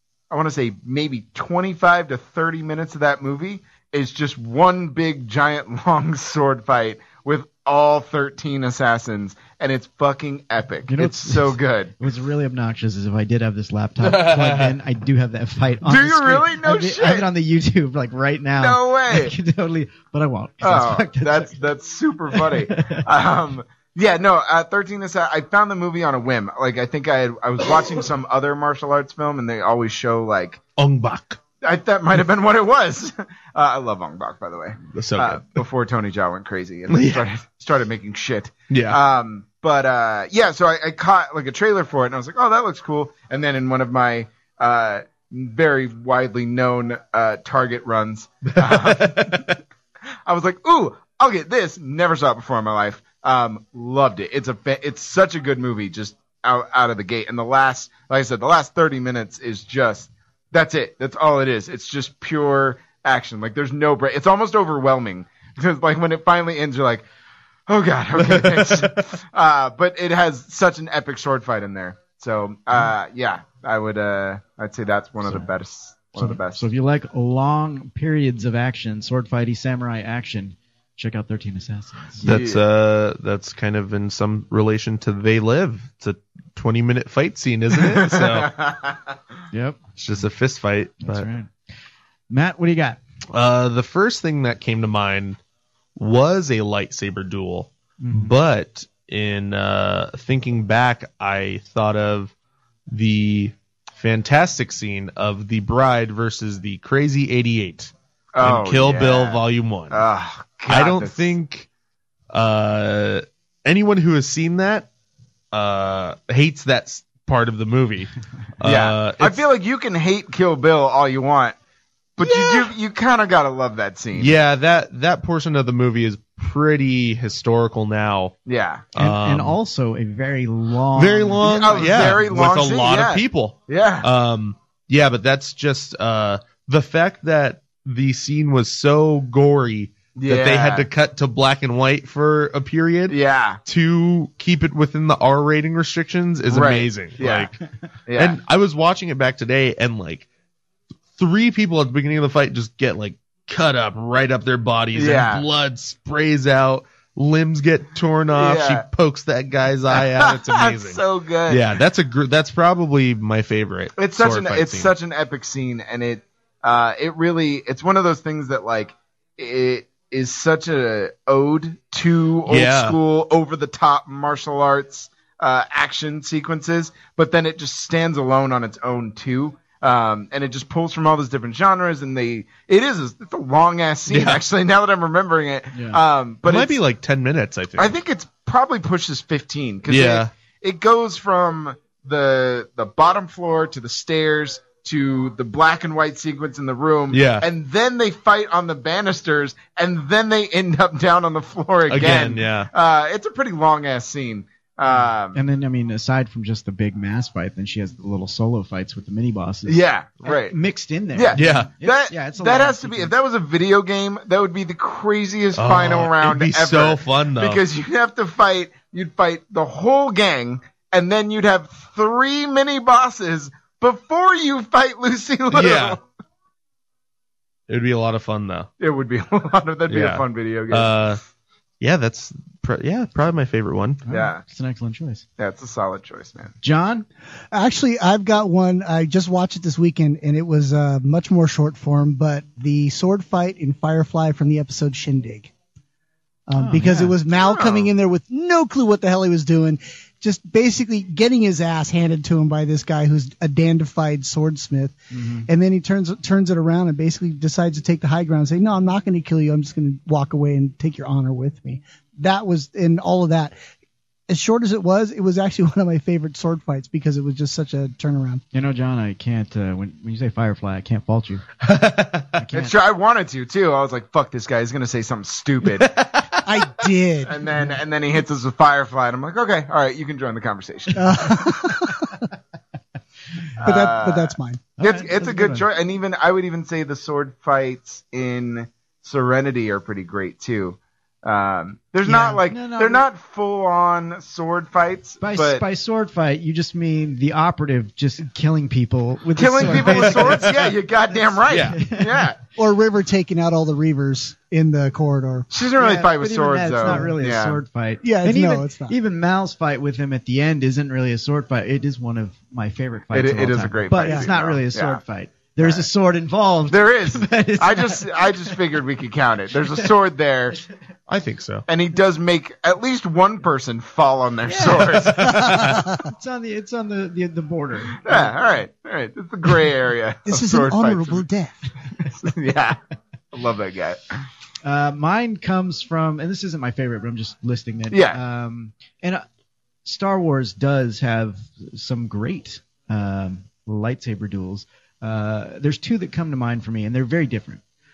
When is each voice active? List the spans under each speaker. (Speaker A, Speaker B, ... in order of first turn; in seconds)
Speaker A: 0.3-11.9, 15.8-17.3, 18.6-19.3, 20.6-30.6, 31.6-49.5, 50.3-67.0, 67.7-76.7, 82.2-82.6, 87.8-89.2, 108.3-111.3, 118.6-121.6, 122.2-124.4, 128.5-128.8, 131.4-134.1, 140.2-140.9, 143.1-143.6, 146.5-147.5, 148.1-148.4, 154.9-155.4, 158.3-158.8, 159.9-161.7, 164.0-186.8, 187.8-205.4, 209.7-210.6, 211.1-226.0, 228.8-231.0, 234.1-234.4, 235.4-236.6, 247.3-247.9, 272.5-276.0, 277.2-281.5, 283.6-295.6, 299.4-302.4, 305.5-307.6, 313.1-315.0, 315.6-315.9, 316.7-320.6, 321.7-325.4, 328.0-331.2, 332.1-332.8, 333.3-334.0, 337.9-338.2
Speaker B: 10.9-21.6, 22.3-23.0, 75.2-75.5, 76.2-82.3, 89.5-89.8, 91.0-91.5, 92.3-93.0, 98.0-98.3, 129.0-132.5, 185.7-186.0, 204.9-213.1, 234.1-235.2, 236.6-237.1, 246.6-247.2, 255.1-255.5, 268.5-271.5, 272.3-272.7, 284.8-285.7, 292.1-293.1, 295.2-300.6, 301.1-302.2, 305.8-318.3, 324.5-328.3, 334.6-339.2, 339.9-347.6
Speaker C: 14.1-14.7, 30.8-31.4, 34.9-35.6, 36.9-37.2, 38.7-39.0, 48.5-49.4, 82.2-88.5, 90.0-91.3, 93.3-95.4, 96.0-102.3, 102.9-110.0, 110.7-111.7, 112.3-114.9, 115.5-119.5, 122.2-122.7, 124.2-128.3, 128.9-129.6, 130.9-147.6, 148.2-150.3, 151.2-164.9, 172.5-173.0, 184.1-184.4, 186.4-188.0, 189.9-190.3, 197.1-197.5, 201.9-202.7, 211.3-211.7, 215.6-217.6, 225.5-226.0, 227.7-228.7, 229.9-231.2, 231.8-234.0, 271.7-272.3, 275.8-276.2, 300.2-300.7, 301.5-301.8, 321.1-321.6, 325.2-325.8
Speaker D: 237.5-245.5, 246.5-263.5, 264.3-268.4, 276.4-277.4, 280.9-282.2, 283.6-284.6, 302.6-305.5, 308.0-309.0, 325.6-325.9, 330.3-331.6